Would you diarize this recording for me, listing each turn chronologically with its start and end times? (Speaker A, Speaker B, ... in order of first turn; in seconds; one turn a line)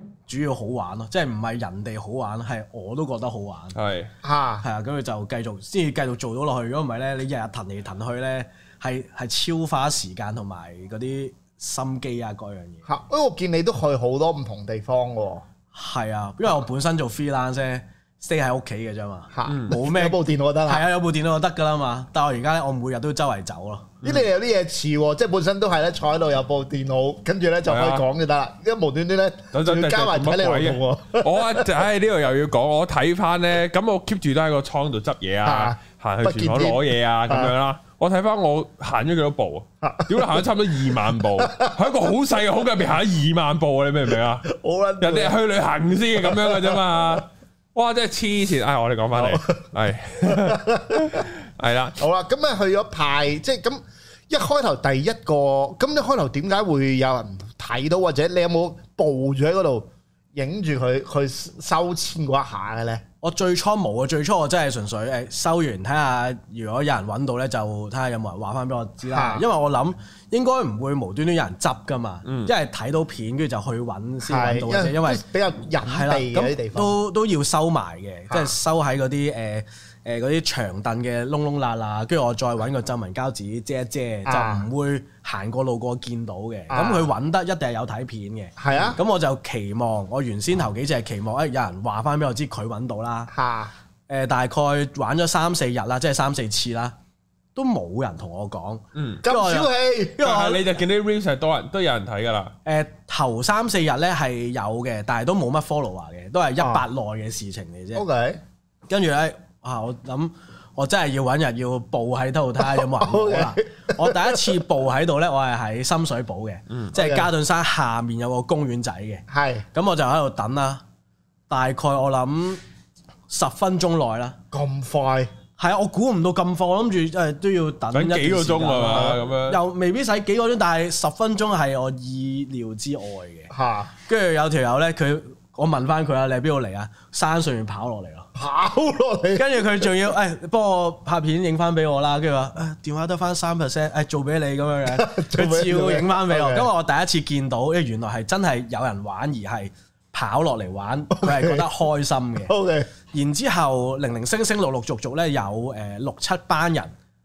Speaker A: 0.3-3.8
Speaker B: 3.7-4.1
Speaker C: 4.2-4.6
Speaker A: 4.6-12.8
Speaker C: 12.8-15.4
Speaker A: 15.7-24.0
Speaker C: 19.3-20.9
Speaker B: 19.5-19.8
Speaker C: 24.0-31.7
Speaker B: 27.7-28.0
Speaker B: 29.5-44.5
Speaker C: 35.4-37.5
Speaker C: 39.8-41.7
Speaker C: 44.5-45.4
Speaker B: 45.0-52.0
Speaker C: 46.2-46.9
Speaker C: 49.1-49.4
Speaker C: 50.2-51.3
Speaker C: 52.0-63.0
Speaker A: 63.2-75.2
Speaker C: 69.0-69.4
Speaker B: 72.2-72.5
Speaker C: 74.2-77.0
Speaker A: 75.9-93.3
Speaker C: 84.2-84.7
Speaker C: 86.7-87.1
Speaker C: 88.6-89.0
Speaker C: 93.3-93.7
Speaker A: 94.1-96.9
Speaker A: 97.5-99.7
Speaker B: 98.9-99.2
Speaker C: 99.2-100.6
Speaker B: 100.2-102.5
Speaker A: 102.6-108.0
Speaker C: 106.6-106.8
Speaker C: 107.9-108.4
Speaker A: 108.9-120.8
Speaker C: 112.6-114.6
Speaker C: 116.9-117.3
Speaker C: 119.3-119.7
Speaker A: 121.5-122.6
Speaker A: 123.3-124.4
Speaker C: 124.5-125.3
Speaker A: 125.6-133.5
Speaker B: 127.9-129.6
Speaker C: 133.5-133.9
Speaker A: 134.1-138.3
Speaker C: 138.3-139.9
Speaker A: 139.3-152.5
Speaker C: 144.9-146.7
Speaker C: 151.1-151.7
Speaker C: 152.5-152.9
Speaker A: 153.1-156.9